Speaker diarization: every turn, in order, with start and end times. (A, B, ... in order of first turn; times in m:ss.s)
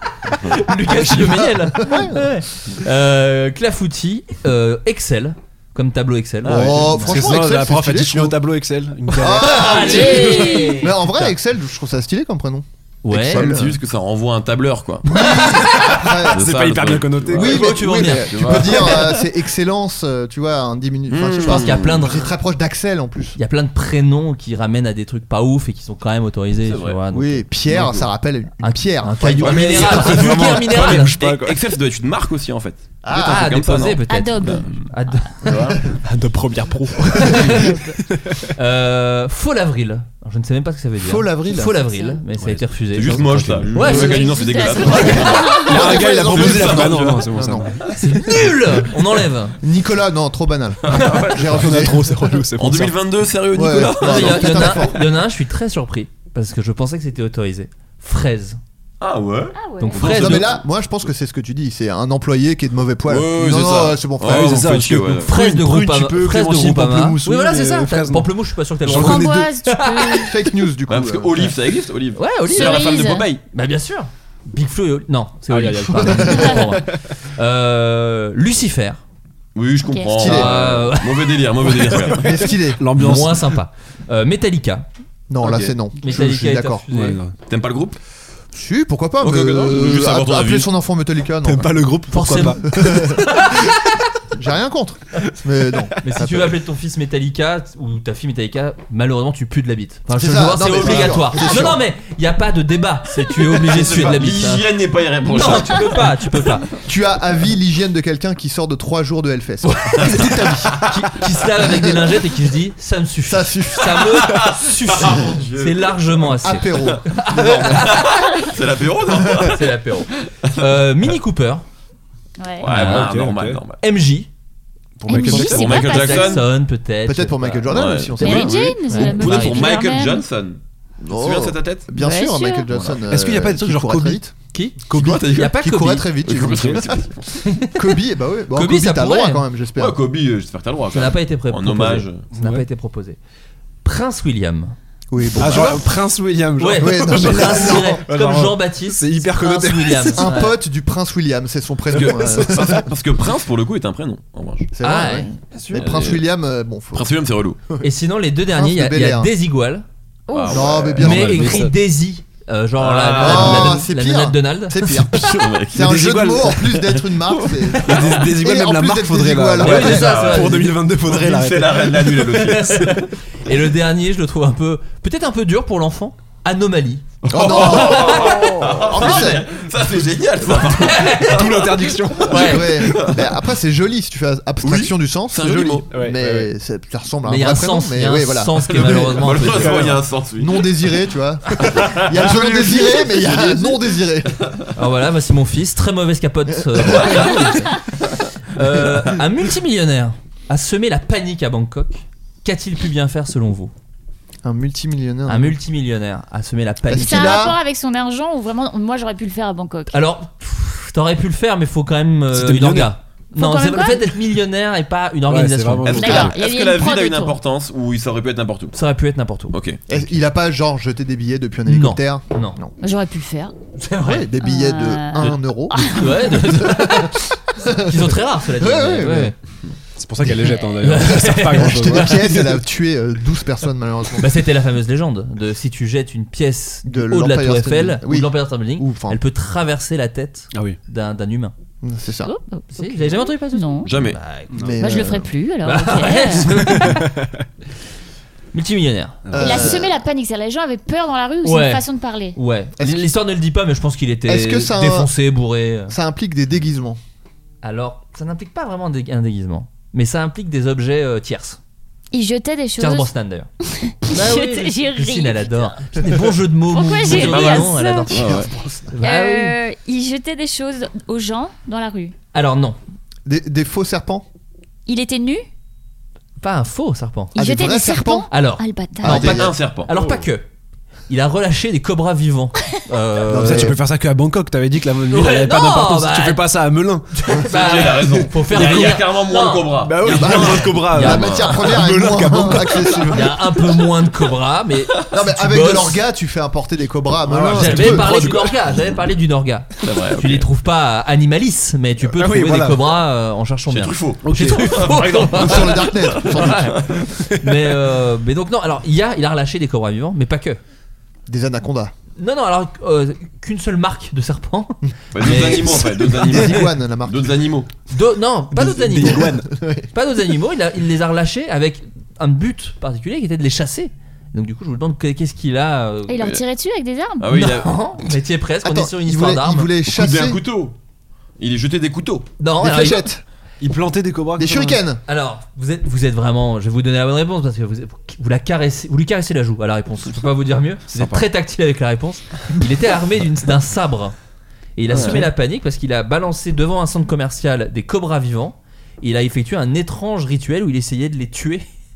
0:00.2-0:07.1 A
0:00.9-0:02.3 B
0:06.4-0:07.3 C
0:06.4-0:08.4 B
0:06.8-0:10.6 D
0:09.2-0:11.3 A
0:09.2-0:13.8 B
0:13.0-0:13.5 A
0:13.2-0:19.2 C
0:15.1-0:16.4 B
0:15.4-0:17.8 D
0:17.3-0:23.4 B
0:17.4-0:19.0 A
0:21.1-0:22.1 C
0:21.4-0:22.3 A
0:23.4-0:27.4 A
0:26.6-0:27.0 C
0:27.1-0:29.8 B
0:27.7-0:28.1 C
0:28.6-0:31.1 A
0:29.4-0:34.6 C
0:29.6-0:31.6 D
0:33.0-0:33.5 B
0:33.1-0:35.5 A
0:34.1-0:34.7 E
0:35.4-0:35.8 C
0:36.0-0:38.5 D
0:37.2-0:37.7 A
0:37.6-0:37.9 E
0:38.6-0:45.3 A
0:41.0-0:41.8 B
0:41.7-0:42.2 E
0:42.4-0:44.0 D
0:42.9-0:47.6 C
0:43.8-0:46.0 E
0:45.6-0:48.5 D
0:45.7-0:47.7 B
0:48.0-0:49.6 A
0:49.6-0:52.4 B
0:50.9-0:51.6 C
0:51.4-0:53.0 D
0:52.6-0:54.8 C
0:53.5-0:55.0 B
0:54.0-0:58.6 A
0:59.0-1:00.6 C
0:59.6-1:00.0 E
0:59.8-1:00.6 A
1:00.0-1:04.7 B
1:03.1-1:05.3 C
1:04.2-1:09.5 D
1:05.2-1:10.3 A
1:08.9-1:10.3 E
1:10.2-1:11.6 B
1:10.9-1:13.4 C
1:12.1-1:19.0 A
1:12.5-1:13.3 E
1:15.5-1:17.0 D
1:16.0-1:16.5 B
1:19.6-1:22.4 C
1:19.8-1:20.1 E
1:20.1-1:20.6 B
1:20.2-1:21.4 A
1:22.0-1:23.6 D
1:22.1-1:22.8 B
1:22.9-1:24.9 A
1:25.3-1:26.8 B
1:25.4-1:25.7 C
1:26.0-1:27.2 A
1:26.9-1:27.4 D
1:27.5-1:28.0 C
1:28.5-1:33.2 B
1:29.2-1:30.7 C
1:31.4-1:33.6 D
1:32.1-1:33.6 A
1:34.4-1:36.6 B
1:36.0-1:44.7 A
1:40.1-1:41.8 B
1:43.7-1:46.1 C
1:43.8-1:44.0 B
1:45.2-1:46.7 A
1:46.8-1:50.7 B
1:49.6-1:58.1 A
1:53.3-1:54.4 B
1:54.4-1:59.7 C
1:56.4-1:58.0 B
1:59.4-2:01.6 A
2:00.4-2:00.8 C
2:02.4-2:02.7 E
2:02.6-2:03.8 C
2:02.7-2:03.1 A
2:02.7-2:03.6 D
2:03.8-2:04.3 A
2:05.0-2:05.8 D
2:05.1-2:06.4 E
2:05.1-2:07.7 A
2:05.2-2:06.4 C
2:07.0-2:08.8 B
2:07.7-2:11.9 C
2:08.2-2:10.3 E
2:08.9-2:09.7 A
2:11.1-2:14.3 B
2:12.0-2:12.7 E
2:13.1-2:14.3 D
2:14.5-2:16.1 A
2:14.9-2:15.2 D
2:14.9-2:17.0 B
2:14.9-2:15.5 C
2:16.2-2:17.3 C
2:16.5-2:16.8 D
2:17.4-2:17.9 A
2:17.6-2:20.0 B
2:18.5-2:19.4 A
2:19.8-2:22.3 C
2:20.9-2:23.2 A
2:22.3-2:22.6 D
2:23.8-2:24.7 A
2:25.1-2:25.9 B
2:25.4-2:30.3 D
2:26.6-2:30.6 A
2:26.8-2:28.0 B
2:30.1-2:32.8 B
2:31.9-2:32.8 D
2:32.0-2:34.7 C
2:34.7-2:37.1 B
2:34.8-2:35.8 A
2:35.7-2:36.2 C
2:36.9-2:37.6 C
2:37.8-2:39.8 A
2:38.5-2:39.3 B
2:40.3-2:40.7 E
2:40.3-2:41.2 C
2:40.5-2:41.6 B
2:41.0-2:41.8 D
2:41.0-2:44.8 A
2:42.8-2:43.7 C
2:43.0-2:43.7 D
2:43.2-2:50.1 B
2:45.1-2:46.1 C
2:45.7-2:46.7 D
2:47.1-2:48.2 C
2:47.9-2:53.0 D
2:49.6-2:50.7 A
2:49.8-2:52.9 C
2:52.4-2:59.3 A
2:57.3-3:02.0 C
2:57.3-2:59.5 B
3:00.5-3:01.6 A
3:01.1-3:02.6 D
3:02.2-3:02.8 A
3:02.3-3:09.3 B
3:02.8-3:03.4 C
3:04.6-3:05.9 C
3:05.9-3:06.5 D
3:07.3-3:09.8 A
3:08.7-3:10.8 C
3:09.5-3:10.0 D
3:10.4-3:14.4 B
3:11.6-3:13.8 C
3:14.8-3:17.7 A
3:16.8-3:17.2 B
3:18.5-3:23.7 A
3:24.4-3:25.6 B
3:25.3-3:27.4 A
3:26.9-3:27.6 B
3:26.9-3:30.0 E
3:29.9-3:36.3 A
3:32.3-3:32.9 D
3:33.3-3:34.0 E
3:35.3-3:36.3 D
3:35.9-3:38.7 C
3:35.9-3:37.4 E
3:38.7-3:39.6 A
3:39.5-3:39.8 C
3:39.9-3:42.7 B
3:41.7-3:42.6 A
3:42.8-3:43.6 E
3:43.8-3:44.3 A
3:44.0-3:46.0 B
3:44.4-3:46.1 E
3:45.2-3:49.3 A
3:46.6-3:49.3 B
3:50.0-3:52.6 D
3:50.8-3:52.2 A
3:51.5-3:54.3 B
3:54.2-4:01.5 A
3:56.9-3:59.2 B
4:00.5-4:00.8 D
4:01.8-4:02.3 B
4:02.2-4:03.9 E
4:02.7-4:04.8 A
4:03.8-4:04.2 C
4:04.5-4:04.8 D
4:04.6-4:05.3 B
4:04.8-4:06.5 E
4:05.6-4:07.1 A
4:06.5-4:07.4 D
4:08.5-4:09.3 A
4:09.3-4:09.7 D
4:09.3-4:10.0 B
4:09.4-4:12.4 E
4:11.4-4:16.0 A
4:12.8-4:13.0 B
4:14.3-4:15.1 B
4:15.9-4:17.0 B
4:17.6-4:21.6 A
4:22.1-4:23.1 E
4:22.8-4:23.5 A
4:23.6-4:26.1 E
4:24.1-4:29.6 A
4:26.7-4:28.2 E
4:27.1-4:28.5 C
4:28.1-4:29.0 B
4:29.0-4:32.1 E
4:32.3-4:32.8 A
4:33.3-4:34.2 B
4:34.9-4:35.4 E
4:36.4-4:37.4 A
4:37.4-4:38.3 B
4:37.4-4:39.2 E
4:38.3-4:40.4 A
4:39.0-4:39.6 B
4:39.1-4:39.9 C
4:39.9-4:40.3 D
4:41.1-4:43.7 A
4:43.3-4:43.8 B
4:43.4-4:47.2 D
4:45.1-4:46.6 A
4:47.1-4:51.5 A
4:47.4-4:51.6 C
4:48.5-4:49.0 D
4:49.8-4:53.2 D
4:50.1-4:53.4 B
4:53.1-4:56.0 A
4:55.1-4:58.1 B
4:57.2-4:58.6 D
4:57.5-5:06.9 A
4:59.8-5:00.5 C
5:02.0-5:02.9 D
5:03.7-5:05.7 C
5:04.2-5:05.4 D
5:05.3-5:06.7 B
5:07.1-5:07.7 D
5:07.4-5:10.6 A
5:11.3-5:11.9 B
5:12.2-5:16.4 A
5:15.1-5:17.7 C
5:15.3-5:17.4 B
5:17.9-5:19.3 A
5:18.5-5:19.5 D
5:19.1-5:19.9 B
5:19.9-5:26.2 A
5:26.1-5:27.3 E
5:27.2-5:27.8 C
5:27.3-5:29.7 A
5:28.6-5:30.4 B
5:29.9-5:30.7 C
5:31.4-5:32.3 C
5:32.4-5:33.1 A
5:32.6-5:33.2 B
5:33.6-5:34.8 D
5:34.4-5:35.0 B
5:35.1-5:44.1 A
5:40.9-5:41.3 D
5:44.8-5:51.7 A
5:44.9-5:45.3 D
5:45.0-5:45.2 C